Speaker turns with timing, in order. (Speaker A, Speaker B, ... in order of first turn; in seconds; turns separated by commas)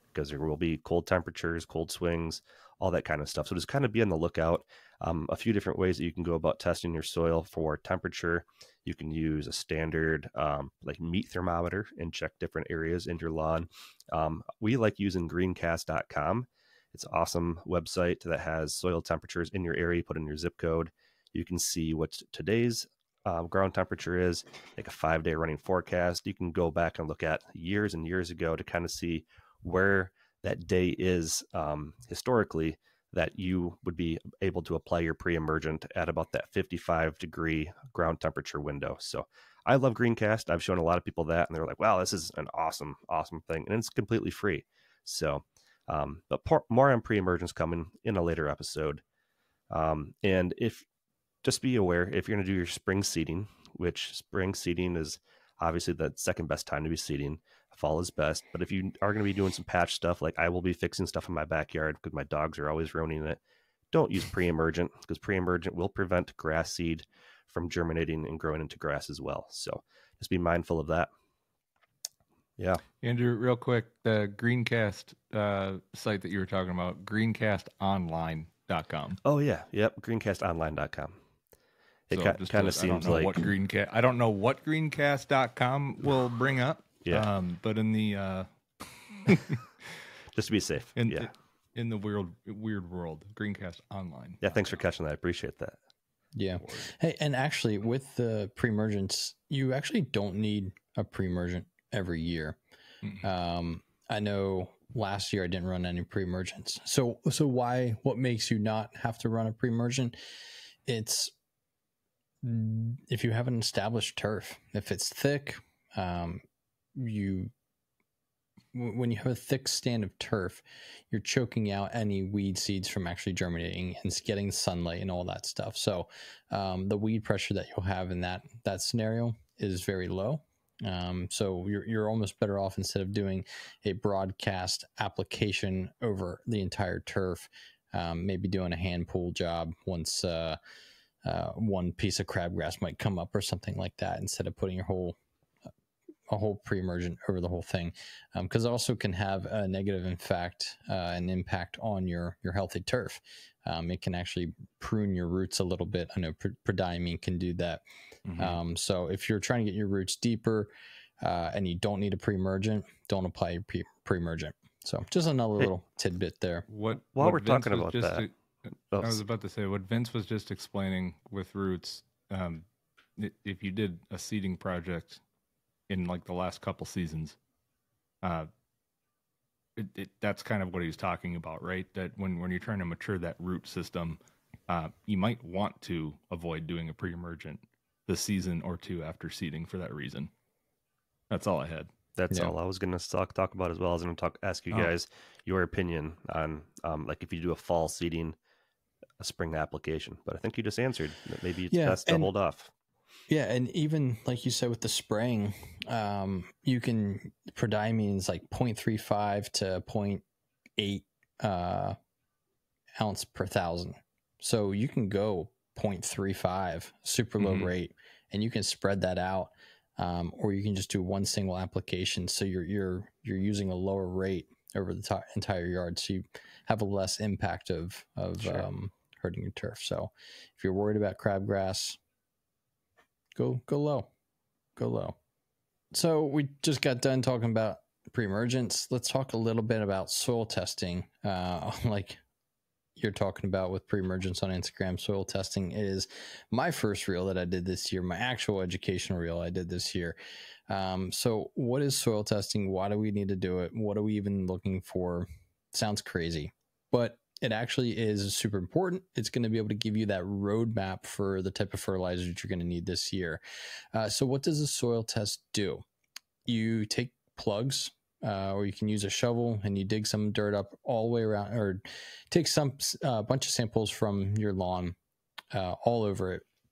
Speaker A: 0.1-49.0, Speaker A: 49.7-50.8, Speaker A: 51.4-63.4, Speaker A: 63.9-71.1, Speaker A: 72.6-72.8, Speaker B: 73.0-79.2, Speaker A: 79.2-81.1, Speaker A: 82.1-83.5, Speaker B: 82.1-88.5, Speaker B: 89.2-89.6, Speaker A: 90.3-91.3, Speaker B: 91.0-94.6, Speaker A: 94.4-95.8, Speaker C: 96.3-102.6, Speaker C: 103.2-110.2, Speaker C: 110.8-111.3, Speaker C: 112.4-116.4, Speaker C: 117.0-117.5, Speaker C: 118.7-140.6, Speaker C: 141.2-145.2, Speaker C: 146.3-157.8, Speaker B: 158.3-158.6, Speaker C: 158.4-166.7, Speaker B: 166.7-168.3, Speaker A: 167.1-168.2, Speaker A: 168.9-169.2, Speaker B: 169.0-172.6, Speaker B: 173.2-175.2, Speaker B: 175.9-177.4, Speaker B: 178.2-178.5, Speaker B: 179.8-190.3, Speaker B: 191.3-191.9, Speaker A: 192.1-198.4, Speaker A: 199.2-202.7, Speaker C: 201.7-202.3, Speaker C: 203.3-210.2, Speaker C: 210.8-212.0, Speaker C: 213.0-232.0, Speaker B: 217.4-217.7, Speaker C: 233.3-234.1, Speaker C: 234.8-235.2, Speaker C: 235.9-242.2, Speaker C: 243.0-250.2, Speaker C: 250.7-263.4, Speaker C: 263.9-265.8, Speaker C: 266.4-274.9, Speaker C: 275.5-276.4